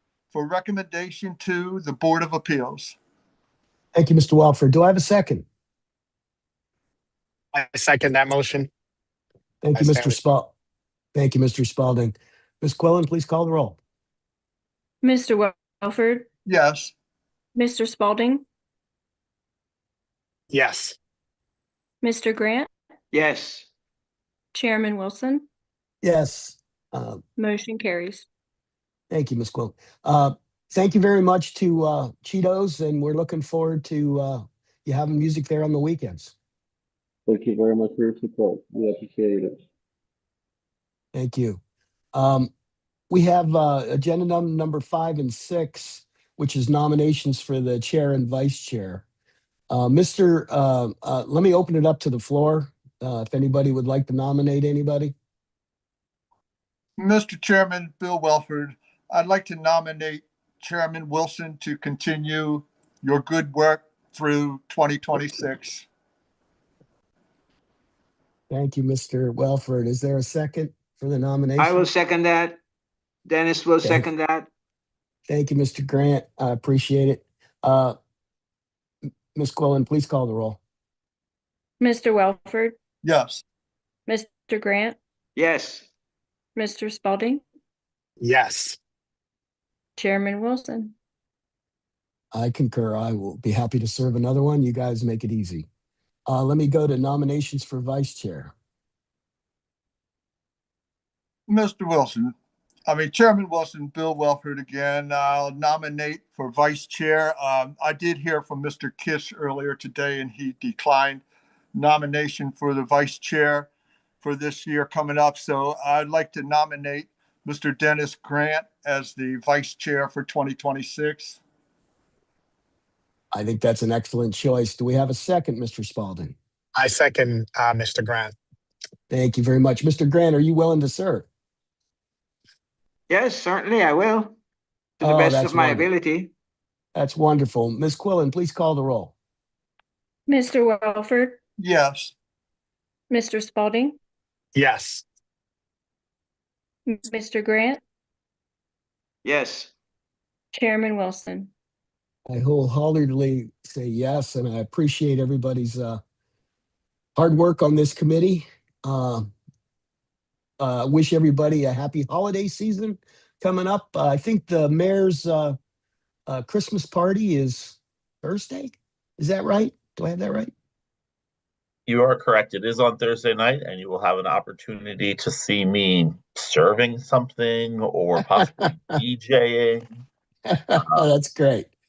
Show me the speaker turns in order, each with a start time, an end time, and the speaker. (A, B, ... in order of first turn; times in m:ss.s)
0:00.3-0:03.0 A
0:04.0-0:05.4 B
0:07.5-0:08.7 C
0:09.6-0:10.5 B
0:09.8-0:10.2 C
0:11.2-0:13.8 B
0:15.0-0:16.3 D
0:16.5-0:16.9 A
0:17.6-0:18.4 D
0:20.5-0:21.0 C
0:22.0-0:22.7 D
0:23.1-0:23.7 E
0:24.5-0:25.5 D
0:26.0-0:27.2 B
0:27.4-0:28.3 D
0:29.1-0:36.3 B
0:37.3-0:39.6 F
0:41.1-0:41.6 B
0:42.1-0:42.5 B
0:43.1-0:49.0 B
0:49.7-0:55.1 B
0:57.0-1:05.9 A
1:08.5-1:11.9 B
1:11.6-1:12.6 E
1:13.3-1:14.5 E
1:15.3-1:18.0 B
1:19.4-1:20.6 B
1:21.8-1:22.8 D
1:23.0-1:23.4 A
1:24.1-1:25.0 D
1:25.4-1:25.9 E
1:26.6-1:27.4 D
1:28.2-1:28.8 C
1:30.0-1:30.9 D
1:32.3-1:35.7 B
1:36.3-1:38.5 B
1:41.5-1:42.3 A
1:42.9-1:51.2 A
1:51.7-1:53.7 A
1:54.2-2:01.4 A
2:03.3-2:06.4 B
2:06.8-2:08.3 C
2:09.1-2:11.3 B
2:13.1-2:14.4 E
2:15.0-2:15.9 B
2:15.0-2:16.3 E
2:16.9-2:19.1 B
2:20.3-2:21.4 D
2:21.6-2:22.2 A
2:23.1-2:24.0 D
2:24.6-2:25.0 C
2:26.9-2:27.8 D
2:29.2-2:29.7 E
2:30.5-2:31.5 D
2:32.3-2:36.0 B
2:37.2-2:39.3 B
2:40.6-2:45.6 B
2:46.3-2:50.5 B
2:51.9-2:59.9 G
2:58.2-2:58.7 B
3:00.5-3:01.7 B
3:00.8-3:01.0 G